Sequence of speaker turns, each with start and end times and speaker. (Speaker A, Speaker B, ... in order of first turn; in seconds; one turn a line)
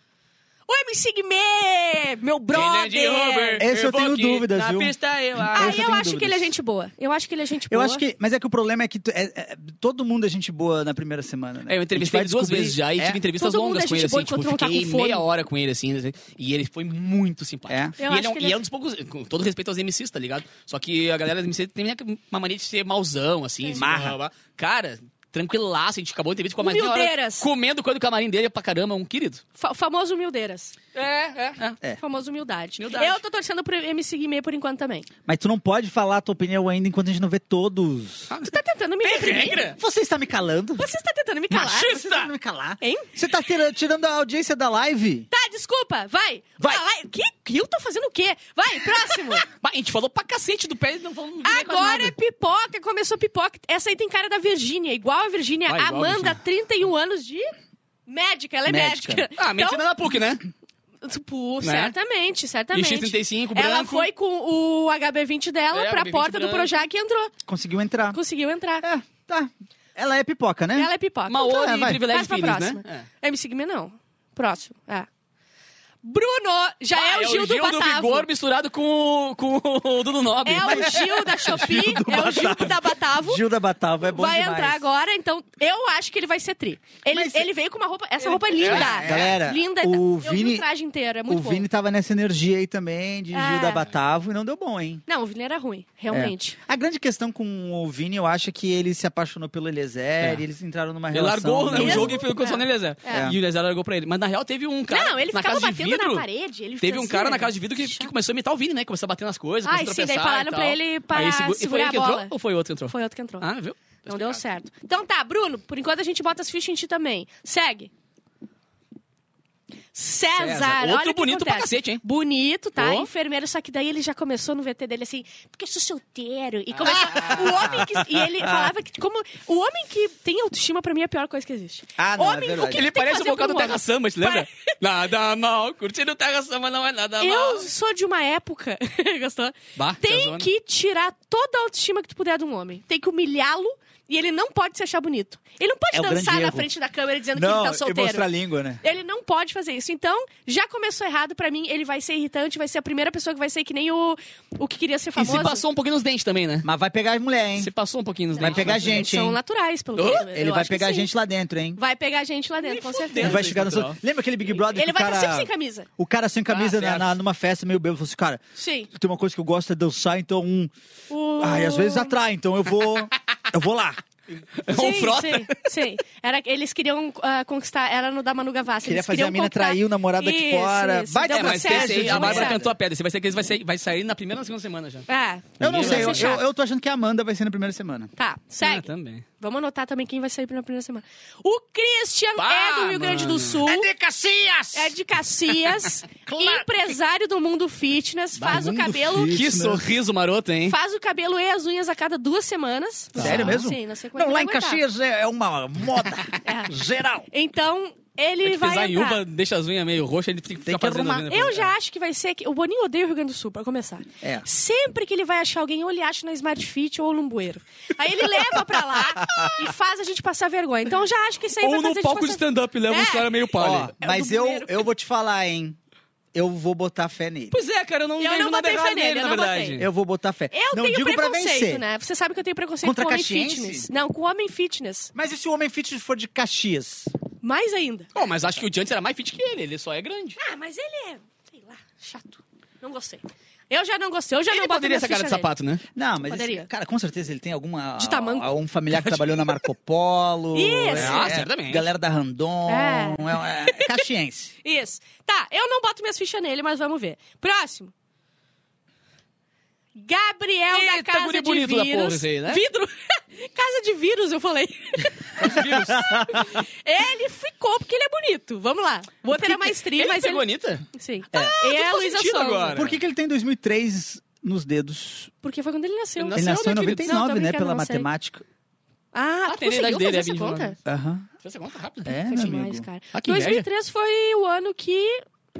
Speaker A: 0.7-3.6
Speaker B: 2.5-5.8
Speaker C: 3.6-6.5
Speaker A: 5.5-8.0
Speaker C: 7.7-13.2
Speaker B: 11.7-29.4
Speaker A: 13.4-15.2
Speaker C: 17.7-17.9
Speaker A: 18.0-18.6
Speaker C: 23.8-24.2
Speaker A: 26.6-27.5
Speaker A: 29.6-30.7
Speaker B: 30.9-31.8
Speaker A: 32.0-35.1
Speaker B: 32.8-33.2
Speaker C: 35.2-38.3
Speaker B: 38.3-39.8
Speaker A: 38.4-39.7
Speaker C: 39.7-40.9
Speaker A: 40.8-42.0
Speaker B: 41.5-42.3
Speaker C: 41.6-45.3
Speaker A: 42.8-43.1
Speaker A: 45.3-49.4
Speaker B: 49.4-52.1
Speaker A: 51.4-57.5
Speaker B: 55.7-56.4
Speaker A: 58.1-60.2
Speaker C: 58.6-59.2
Speaker B: 59.4-60.4
Speaker A: 61.0-67.3
Speaker B: 61.6-61.9
Speaker B: 62.7-64.1
Speaker B: 65.7-66.8
Speaker C: 67.5-68.2
Speaker A: 68.1-68.8
Speaker C: 68.8-70.9
Speaker A: 70.7-75.1
Speaker B: 71.3-73.1
Speaker C: 71.4-72.0
Speaker A: 76.0-78.3
Speaker B: 76.9-81.3
Speaker A: 80.4-83.4
Speaker C: 80.6-84.8
Speaker A: 84.1-91.7
Speaker C: 87.1-87.5
Speaker B: 88.5-89.3
Speaker C: 88.5-90.7
Speaker C: 91.3-95.0
Speaker A: 93.3-93.9
Speaker A: 95.1-96.6
Speaker C: 96.1-102.2
Speaker B: 101.1-106.2
Speaker A: 101.7-103.3
Speaker A: 104.9-108.1
Speaker B: 106.8-114.4
Speaker A: 109.6-112.3
Speaker A: 112.9-113.5
Speaker A: 114.0-117.9
Speaker A: 119.9-134.5
Speaker B: 120.4-122.0
Speaker B: 122.8-123.1
Speaker B: 126.8-127.7
Speaker C: 127.1-128.7
Speaker C: 132.0-132.8
Speaker B: 132.7-137.7
Speaker A: 137.2-148.3
Speaker B: 139.8-140.5
Speaker C: 145.9-146.7
Speaker C: 147.3-148.8
Speaker A: 148.8-155.6
Speaker B: 155.2-156.7
Speaker C: 156.6-157.7
Speaker B: 157.6-159.0
Speaker A: 158.4-161.1
Speaker C: 158.4-159.4
Speaker B: 160.0-160.3
Speaker C: 160.1-161.8
Speaker A: 161.8-163.5
Speaker B: 162.6-164.0
Speaker C: 163.2-170.7
Speaker A: 164.6-165.9
Speaker B: 166.5-167.1
Speaker A: 168.6-168.9
Speaker A: 171.1-172.1
Speaker C: 171.4-174.0
Speaker B: 174.5-175.7
Speaker A: 174.7-182.6
Speaker C: 178.8-182.7
Speaker B: 181.3-185.1
Speaker A: 185.1-186.4
Speaker B: 185.6-186.4
Speaker C: 185.6-188.1
Speaker A: 188.2-188.9
Speaker B: 188.6-189.2
Speaker A: 189.4-193.9
Speaker B: 192.4-193.6
Speaker C: 193.6-194.9
Speaker A: 194.7-199.4
Speaker C: 196.2-196.8
Speaker B: 198.4-200.8
Speaker C: 198.5-199.9
Speaker A: 200.7-204.8
Speaker C: 203.2-207.2
Speaker B: 203.2-203.6
Speaker A: 206.4-206.8
Speaker A: 207.3-209.2
Speaker B: 208.4-211.7
Speaker C: 210.6-211.3
Speaker A: 211.3-223.3
Speaker C: 214.2-214.4
Speaker C: 219.0-219.7
Speaker B: 221.6-223.9
Speaker C: 223.6-225.8
Speaker A: 224.0-224.9
Speaker C: 226.3-227.6
Speaker B: 227.5-229.9
Speaker A: 228.2-229.8
Speaker C: 229.8-231.8
Speaker A: 230.5-235.1
Speaker C: 232.8-233.9
Speaker C: 235.1-237.1
Speaker A: 237.4-238.1
Speaker B: 238.1-240.4
Speaker A: 240.4-245.5
Speaker B: 244.5-245.8
Speaker C: 245.9-254.5
Speaker A: 246.3-246.7
Speaker A: 248.0-248.5
Speaker B: 248.9-249.6
Speaker A: 250.5-251.3
Speaker B: 250.9-251.9
Speaker A: 252.7-254.0
Speaker A: 254.6-257.9
Speaker A: 259.9-272.8
Speaker B: 260.7-262.6
Speaker B: 265.4-266.1
Speaker C: 265.4-266.6
Speaker B: 269.3-273.0
Speaker C: 272.7-275.3
Speaker A: 275.4-278.1
Speaker B: 276.2-277.1
Speaker C: 276.3-278.4
Speaker A: 279.1-280.8
Speaker B: 279.5-280.8
Speaker C: 280.8-281.3
Speaker B: 281.4-282.1
Speaker C: 282.0-282.9
Speaker A: 282.2-285.2
Speaker B: 283.1-283.6